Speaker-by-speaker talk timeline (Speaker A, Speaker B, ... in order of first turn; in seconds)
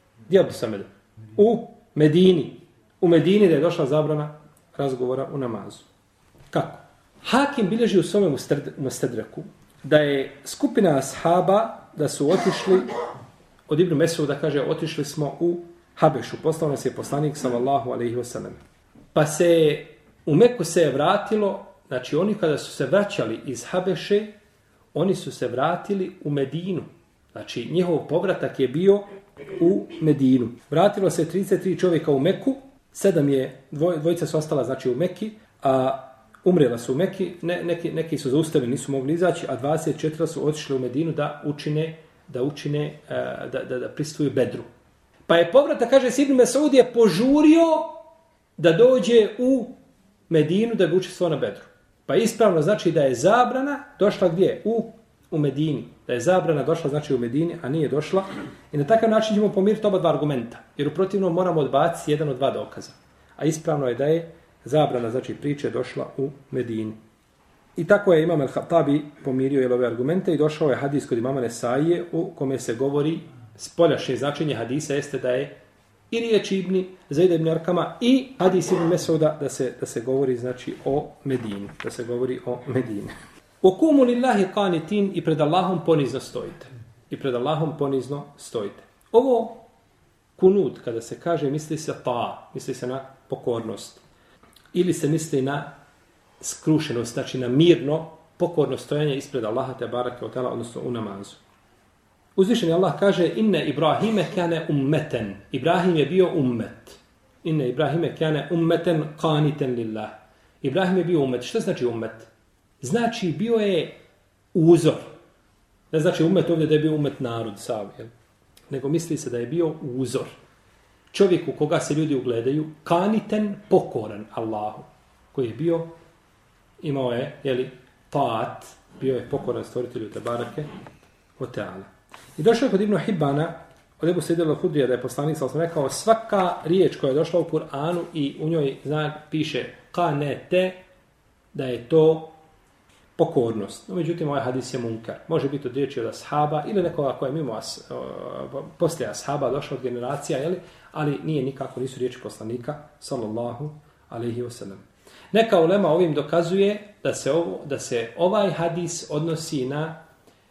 Speaker A: 0.3-5.8, 6.5-12.9, 13.7-18.6, 19.1-24.3, 24.9-44.7, 45.3-48.0, 48.6-49.7, 50.3-67.0, 67.8-75.5, 76.1-89.7, 90.4-94.0, 94.7-95.7, 96.4-101.4, 102.3-112.3, 112.8-114.0, 114.5-115.1, 115.9-118.1, 118.7-120.3, 121.1-125.9, 126.8-130.7, 131.4-140.8, 141.5-142.4, 143.2-160.0